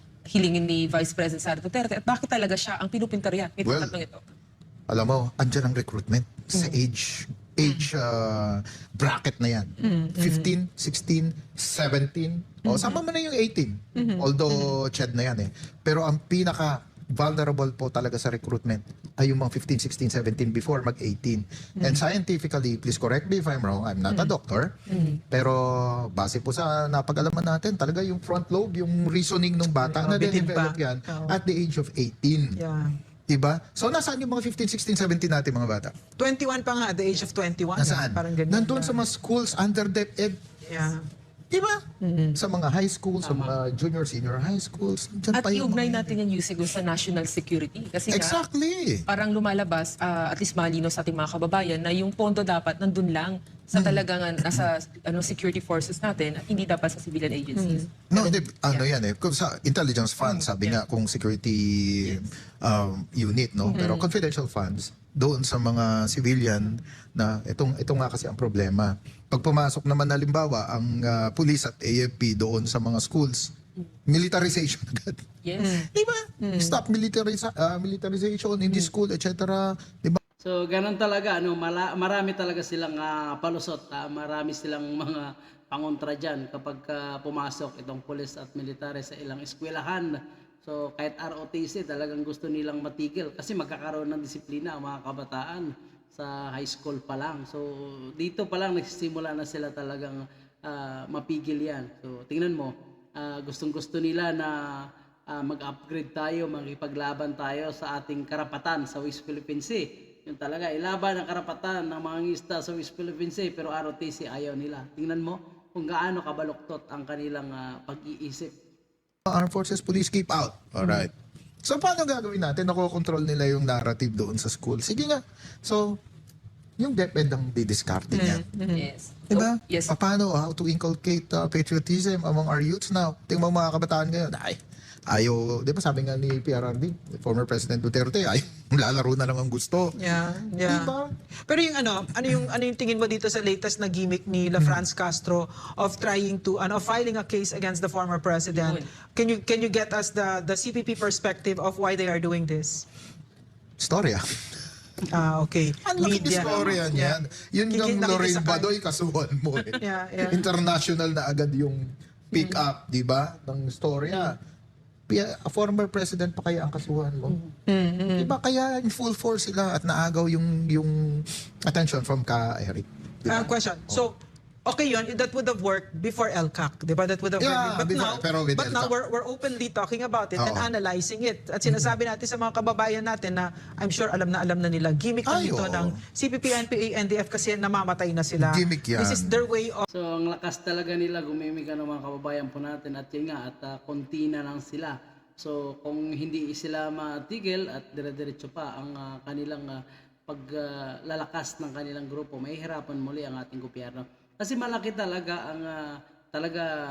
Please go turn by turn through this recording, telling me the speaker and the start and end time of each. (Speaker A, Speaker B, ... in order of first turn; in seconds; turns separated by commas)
Speaker A: 0.3-4.2, Speaker B: 3.6-3.9, Speaker B: 4.9-32.6, Speaker C: 9.8-10.5, Speaker C: 13.9-14.7, Speaker C: 24.9-25.1, Speaker C: 29.8-31.4, Speaker C: 32.6-32.9, Speaker B: 33.3-35.9, Speaker C: 36.2-39.0, Speaker B: 37.8-40.4, Speaker C: 40.6-41.1, Speaker B: 41.5-46.1, Speaker C: 42.0-42.4, Speaker D: 43.2-43.5, Speaker A: 45.3-48.4, Speaker B: 48.1-49.1, Speaker A: 49.1-57.9, Speaker B: 53.7-54.7, Speaker C: 57.6-57.9, Speaker B: 58.1-73.5, Speaker C: 63.7-64.0, Speaker B: 74.1-80.2, Speaker A: 75.4-75.8, Speaker C: 75.6-75.9, Speaker C: 76.4-76.8, Speaker D: 80.4-118.5, Speaker B: 119.3-126.0, Speaker B: 126.8-128.4, Speaker C: 128.1-128.9, Speaker A: 128.8-129.9, Speaker B: 129.3-140.0, Speaker C: 140.0-140.9, Speaker B: 140.6-141.1, Speaker C: 141.5-152.9, Speaker A: 148.5-148.8, Speaker B: 153.8-154.2, Speaker C: 155.1-157.2, Speaker B: 155.8-164.4, Speaker C: 157.7-158.7, Speaker C: 159.8-160.4, Speaker C: 162.3-162.6, Speaker B: 165.1-167.4, Speaker C: 167.7-168.3, Speaker B: 168.2-174.0, Speaker C: 173.2-189.9, Speaker B: 177.4-178.9, Speaker B: 180.4-180.7, Speaker B: 185.2-186.0, Speaker B: 188.4-189.4, Speaker D: 189.9-206.7